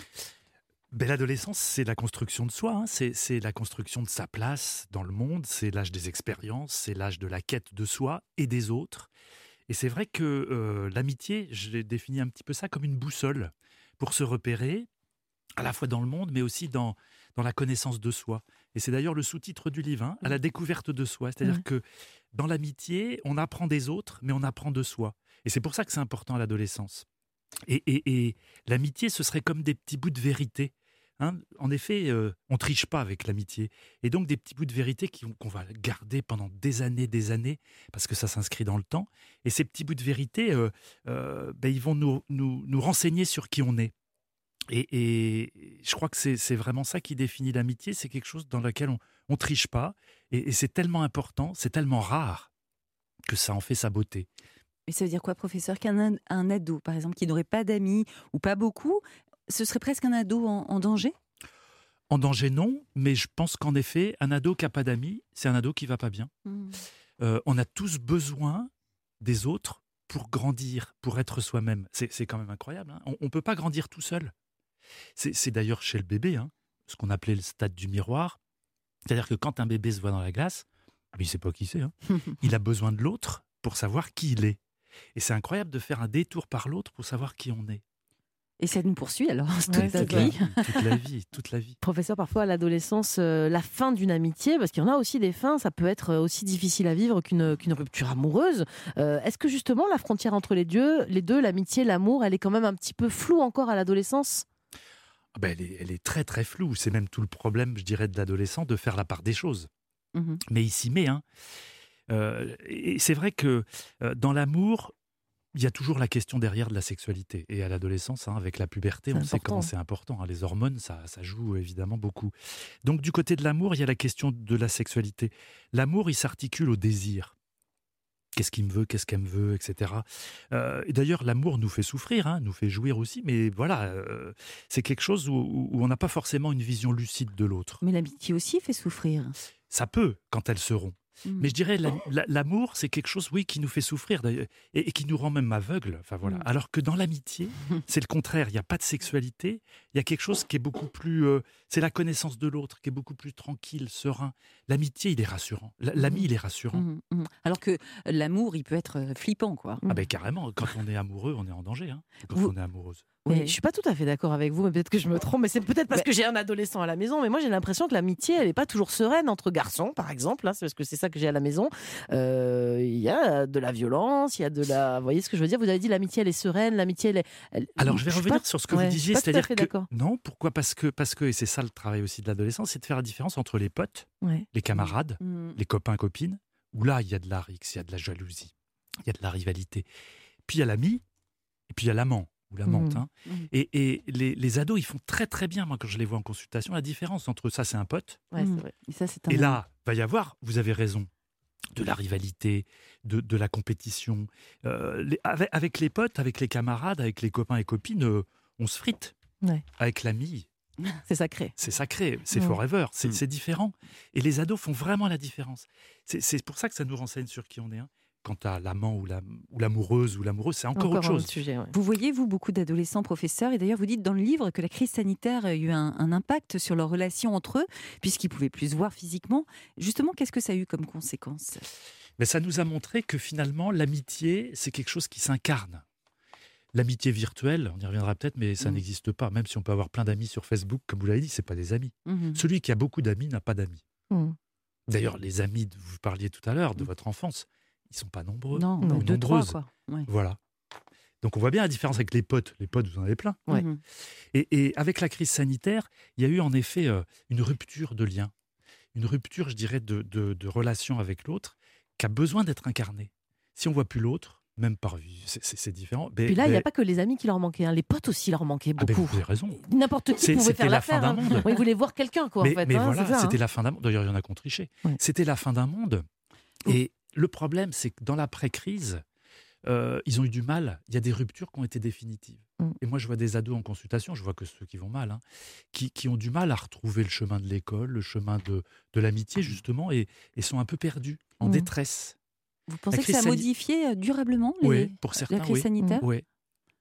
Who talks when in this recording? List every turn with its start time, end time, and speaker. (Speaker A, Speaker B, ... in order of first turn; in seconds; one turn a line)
Speaker A: 0.9-9.1
Speaker A: 9.7-14.9
Speaker A: 15.6-21.8
Speaker A: 22.3-27.1
Speaker A: 27.6-43.9
Speaker A: 44.7-52.5
Speaker A: 53.3-54.3
Speaker B: 54.9-61.1
Speaker A: 62.1-66.3
Speaker B: 66.4-66.8
Speaker A: 67.2-68.7
Speaker A: 69.2-74.3
Speaker A: 75.2-78.4
Speaker A: 79.0-84.6
Speaker A: 85.1-87.8
Speaker B: 88.6-90.8
Speaker C: 89.7-90.3
Speaker A: 89.7-91.8
Speaker C: 91.8-104.4
Speaker A: 105.3-109.7
Speaker B: 110.1-110.4
Speaker A: 110.5-111.2
Speaker A: 112.1-114.9
Speaker A: 115.5-122.3
Speaker C: 119.1-119.7
Speaker A: 122.8-127.3
Speaker A: 128.3-137.8
Speaker B: 137.8-139.3
Speaker A: 139.7-156.8
Speaker B: 141.2-141.5
Speaker B: 156.0-159.8
Speaker A: 159.9-163.1
Speaker B: 163.2-163.6
Speaker C: 163.3-179.9
Speaker A: 177.8-188.5
Speaker B: 184.7-185.6
Speaker A: 189.0-189.8
Speaker A: 190.4-191.0
Speaker A: 191.7-198.2
Speaker C: 192.7-193.0
Speaker C: 198.3-198.7
Speaker B: 198.4-199.6
Speaker A: 199.3-201.1
Speaker A: 201.7-209.1
Speaker A: 209.8-210.5
Speaker C: 211.1-211.5
Speaker A: 211.6-221.3
Speaker C: 220.8-221.7
Speaker B: 221.7-231.6
Speaker A: 232.2-235.8
Speaker A: 236.7-243.8
Speaker B: 242.1-242.4
Speaker C: 244.1-244.3
Speaker A: 244.9-249.5
Speaker B: 248.5-250.1
Speaker A: 250.1-250.4
Speaker A: 251.2-253.5
Speaker B: 253.5-253.8
Speaker A: 254.3-258.3
Speaker A: 258.9-266.6
Speaker C: 266.3-273.4
Speaker A: 268.8-269.6
Speaker A: 270.2-271.5
Speaker A: 272.4-276.0
Speaker A: 276.6-279.0
Speaker A: 279.6-285.2
Speaker A: 285.7-292.1
Speaker C: 291.4-291.7
Speaker B: 292.7-296.0
Speaker A: 292.9-293.5
Speaker A: 294.6-296.2